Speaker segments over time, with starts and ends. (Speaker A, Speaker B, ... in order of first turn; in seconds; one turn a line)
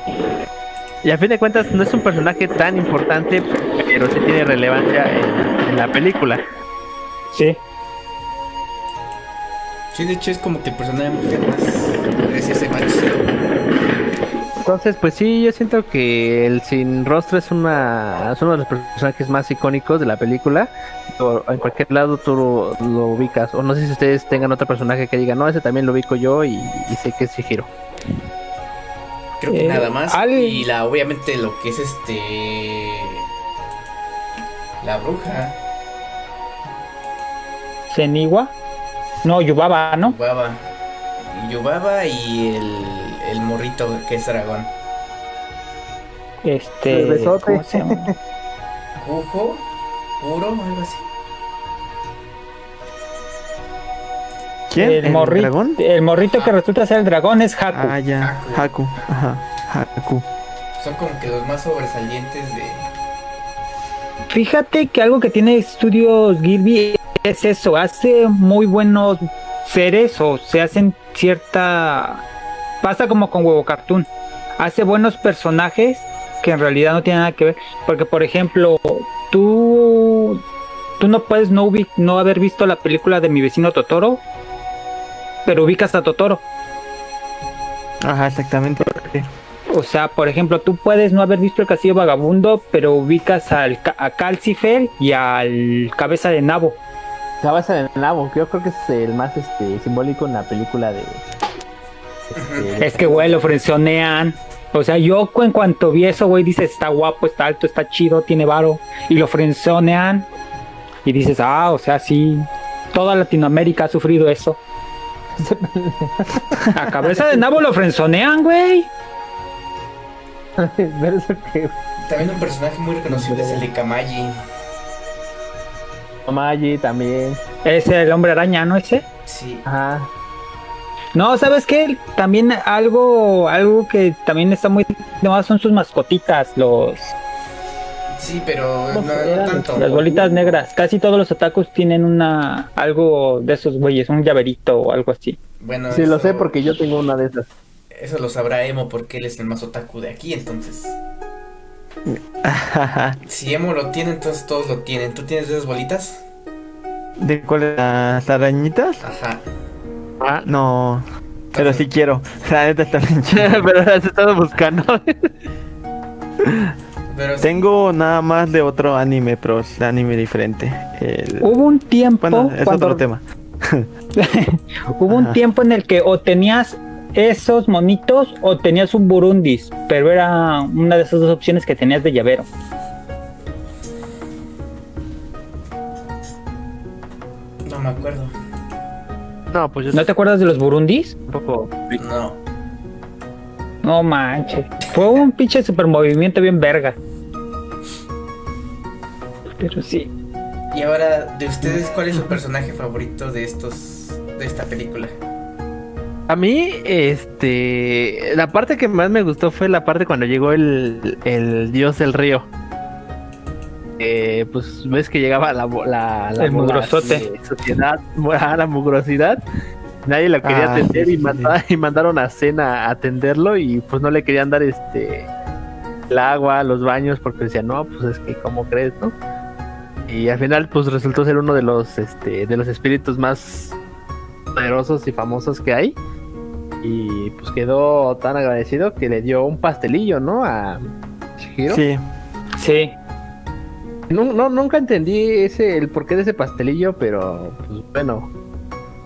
Speaker A: 1.0-6.4
Speaker B: 7.3-7.6
Speaker C: 9.9-13.3
Speaker A: 14.6-27.7
Speaker C: 29.4-33.2
Speaker B: 29.5-30.6
Speaker C: 34.8-35.6
Speaker B: 37.9-38.5
Speaker B: 39.2-40.1
Speaker C: 40.0-40.6
Speaker C: 41.2-44.7
Speaker B: 46.4-48.1
Speaker A: 46.9-48.1
Speaker C: 49.0-49.6
Speaker C: 50.2-51.1
Speaker D: 54.7-55.8
Speaker B: 54.8-58.0
Speaker D: 57.7-60.2
Speaker C: 58.2-58.7
Speaker C: 60.8-62.9
Speaker B: 64.3-72.2
Speaker B: 72.8-74.1
Speaker B: 74.6-80.4
Speaker B: 81.0-84.2
Speaker B: 85.5-86.4
Speaker D: 88.0-89.3
Speaker B: 89.7-96.8
Speaker A: 97.4-101.2
Speaker A: 102.3-103.4
Speaker C: 102.4-102.7
Speaker B: 102.8-110.3
Speaker B: 111.0-114.6
Speaker A: 115.4-117.4
Speaker B: 116.8-118.9
Speaker A: 120.6-121.8
Speaker C: 122.0-124.4
Speaker A: 123.1-123.7
Speaker A: 126.3-127.4
Speaker B: 127.7-129.1
Speaker C: 129.3-129.7
Speaker A: 129.7-130.1
Speaker B: 131.2-137.0
Speaker C: 138.2-140.0
Speaker A: 138.9-140.6
Speaker B: 139.8-145.4
Speaker C: 145.6-146.6
Speaker A: 145.9-147.5
Speaker C: 147.9-151.0
Speaker D: 152.1-153.2
Speaker C: 153.3-156.2
Speaker D: 157.2-159.0
Speaker C: 159.0-159.4
Speaker A: 160.2-160.5
Speaker D: 160.5-161.1
Speaker C: 161.5-161.8
Speaker D: 161.6-163.6
Speaker A: 163.3-165.3
Speaker D: 166.4-166.7
Speaker C: 167.1-167.7
Speaker D: 167.4-171.5
Speaker B: 171.4-173.0
Speaker D: 172.2-173.9
Speaker B: 174.2-182.5
Speaker D: 175.1-175.4
Speaker C: 187.7-188.3
Speaker A: 189.5-190.1
Speaker B: 189.9-191.2
Speaker A: 191.3-192.0
Speaker C: 192.0-192.4
Speaker B: 193.8-197.0
Speaker C: 194.8-195.3
Speaker B: 199.6-200.1
Speaker C: 200.7-205.1
Speaker A: 206.3-212.5
Speaker A: 214.0-219.4
Speaker B: 216.4-217.3
Speaker A: 220.1-225.3
Speaker D: 220.4-221.6
Speaker A: 226.1-229.2
Speaker A: 230.1-233.8
Speaker A: 234.5-236.0
Speaker A: 236.8-241.8
Speaker D: 241.7-242.0
Speaker B: 242.6-242.9
Speaker A: 244.1-248.3